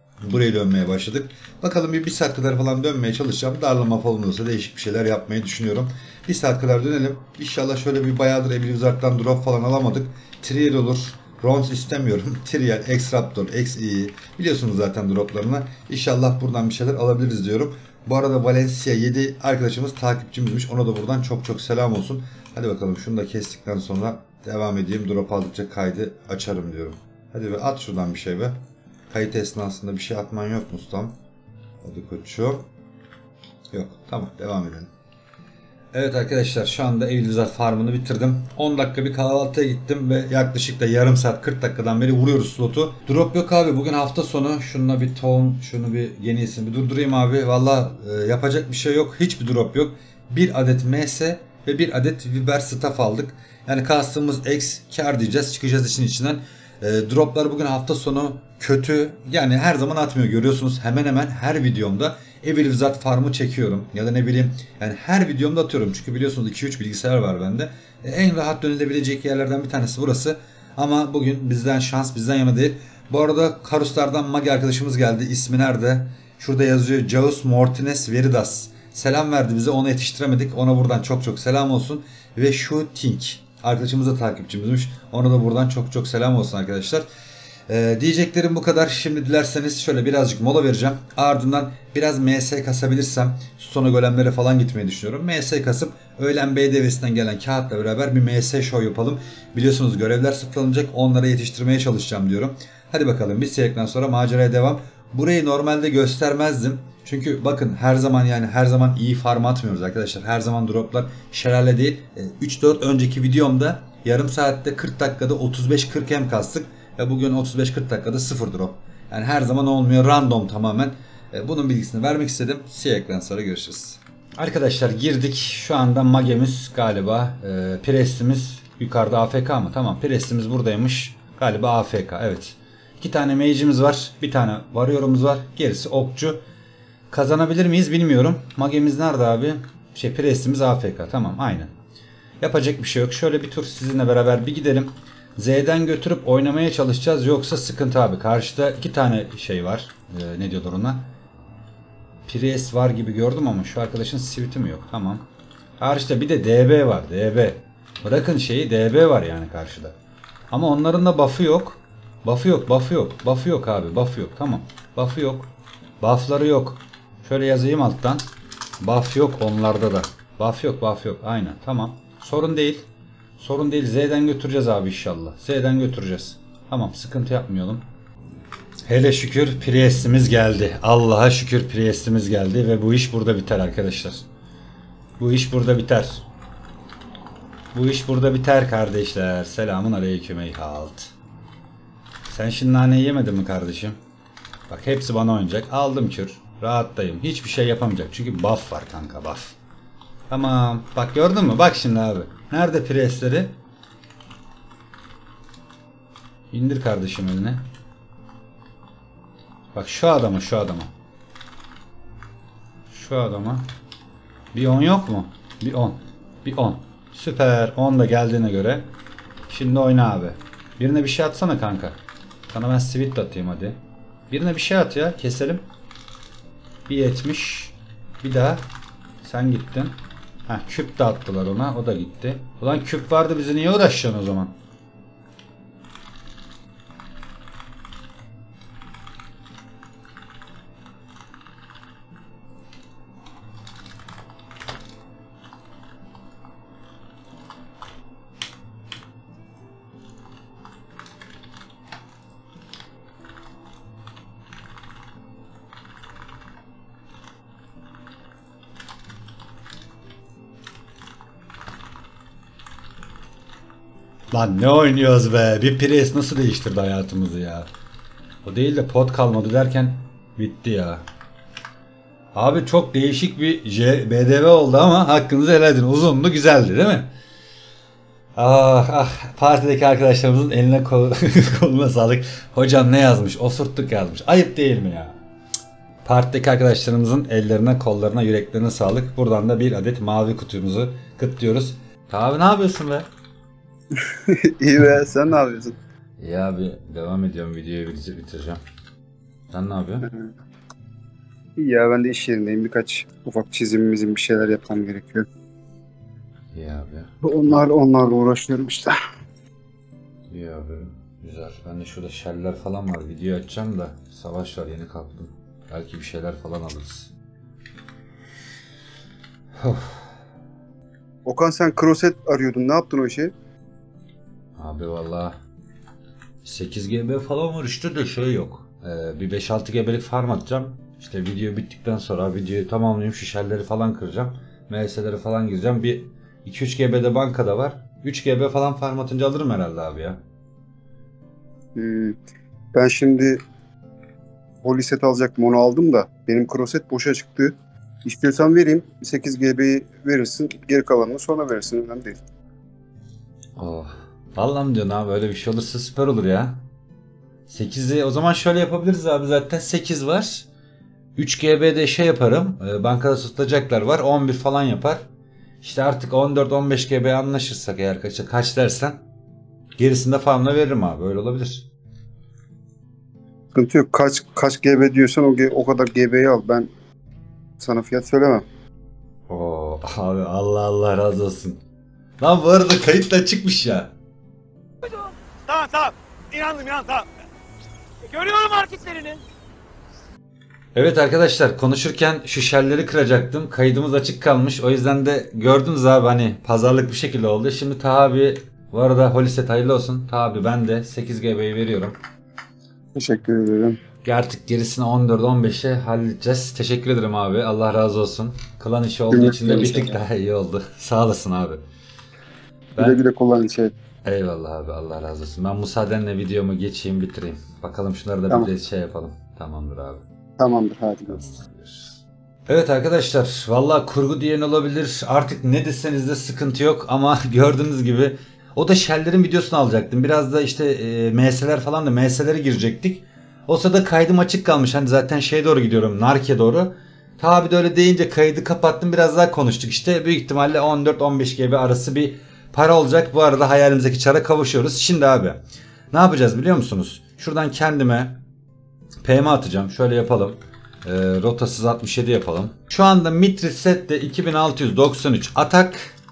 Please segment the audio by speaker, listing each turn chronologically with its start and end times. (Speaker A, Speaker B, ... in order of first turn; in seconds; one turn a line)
Speaker A: 0.2-31.1
Speaker A: 31.8-32.7
Speaker A: 33.7-34.9
Speaker A: 35.9-87.1
Speaker A: 87.7-136.4
Speaker A: 137.1-141.7
Speaker A: 142.4-151.1
Speaker A: 152.3-155.2
Speaker A: 155.8-159.9
Speaker A: 160.5-168.2
Speaker A: 168.8-172.9
Speaker A: 173.4-177.8
Speaker A: 178.9-184.2
Speaker A: 185.2-186.3
Speaker A: 187.7-191.1
Speaker A: 192.3-194.0
Speaker A: 194.7-199.6
Speaker A: 200.3-203.6
Speaker A: 206.5-207.6
Speaker A: 209.7-210.9
Speaker A: 212.9-213.7
Speaker A: 214.5-218.9
Speaker A: 219.5-222.0
Speaker A: 222.5-223.8
Speaker A: 224.3-225.6
Speaker A: 226.9-228.6
Speaker A: 229.2-230.0
Speaker A: 230.5-234.5
Speaker A: 264.3-267.7
Speaker A: 268.4-271.0
Speaker A: 272.3-277.1
Speaker A: 278.4-285.2
Speaker A: 286.1-293.1
Speaker B: 293.9-295.8
Speaker A: 296.2-298.6
Speaker A: 299.5-300.1
Speaker B: 301.6-305.3
Speaker A: 306.5-307.1
Speaker B: 307.2-309.0
Speaker A: 310.3-317.1
Speaker A: 319.6-320.1
Speaker B: 321.2-323.3
Speaker A: 324.6-325.4
Speaker A: 326.4-340.2
Speaker B: 341.8-342.2
Speaker B: 342.7-343.4
Speaker B: 344.6-352.2
Speaker A: 353.6-356.6
Speaker A: 357.5-360.5
Speaker A: 361.2-365.0
Speaker A: 365.6-369.0
Speaker A: 369.8-371.7
Speaker B: 373.5-376.7
Speaker B: 377.6-378.4
Speaker A: 379.3-381.6
Speaker A: 382.2-383.9
Speaker C: 384.8-387.1
Speaker C: 388.1-389.2
Speaker A: 390.7-402.0
Speaker B: 402.9-403.8
Speaker A: 404.0-411.6
Speaker B: 409.1-409.9
Speaker B: 412.8-413.7
Speaker A: 414.1-420.0
Speaker B: 420.4-421.2
Speaker A: 421.1-445.4
Speaker A: 445.9-448.2
Speaker A: 449.0-456.0